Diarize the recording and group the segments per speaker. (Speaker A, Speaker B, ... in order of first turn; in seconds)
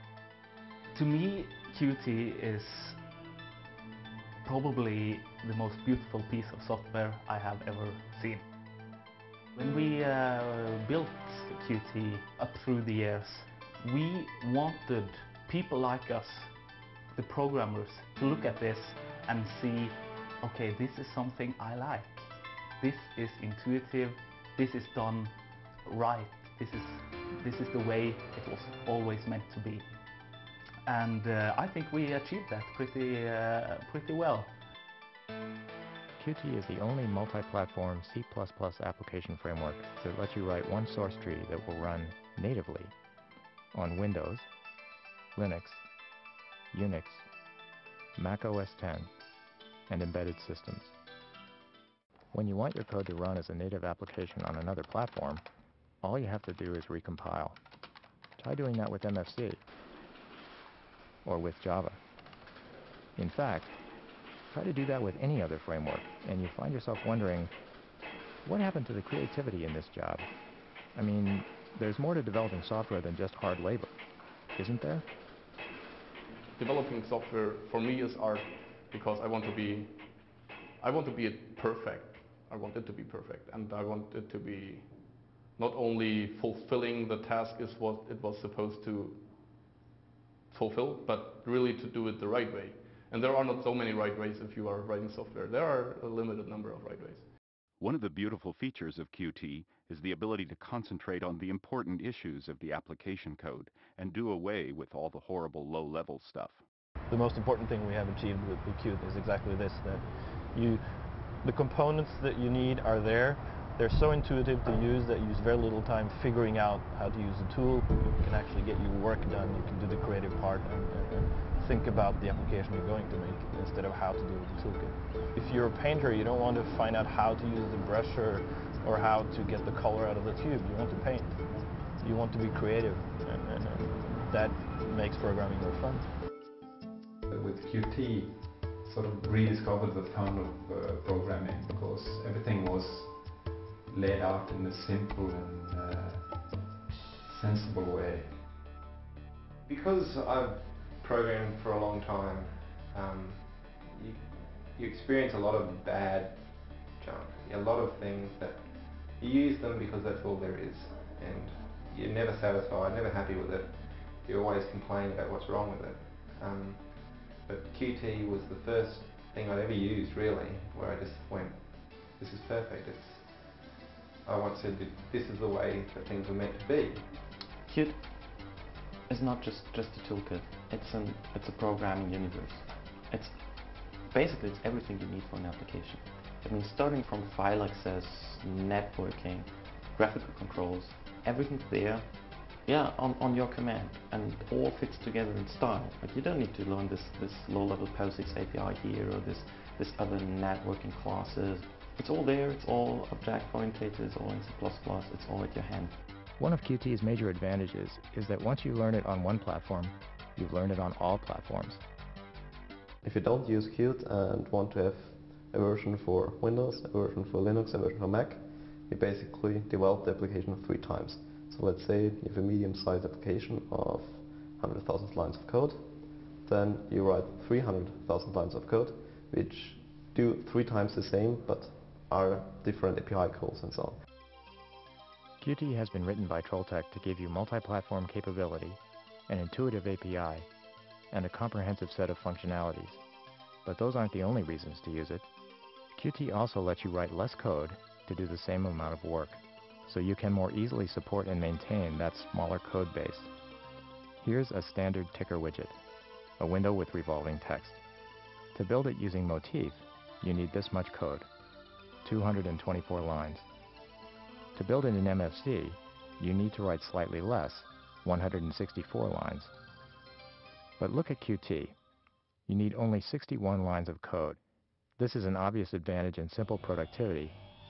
Speaker A: 0.9-3.0, 4.4-8.4, 9.6-16.5, 17.1-29.9, 30.9-34.6
Speaker B: 36.2-42.9, 43.8-44.5, 45.4-45.9, 46.7-47.3, 48.2-49.1, 49.9-50.9, 52.3-55.4, 56.0-57.6, 58.4-59.6, 61.2-62.0, 63.2-63.8, 64.5-67.5, 68.5-70.3, 71.0-73.9, 74.6-75.1, 206.4-211.8, 235.4-240.5, 241.1-243.0, 243.7-245.3, 245.9-253.3, 254.2-255.8, 256.4-257.8, 258.5-261.3, 262.0-263.5, 264.6-269.5, 270.8-271.8, 272.5-274.4, 275.0-277.4
Speaker C: 76.6-89.3, 90.5-97.3
Speaker D: 97.8-106.6
Speaker E: 107.1-131.4, 132.0-136.2
Speaker F: 137.3-148.4
Speaker G: 149.7-177.3
Speaker H: 177.7-205.9
Speaker I: 213.0-234.0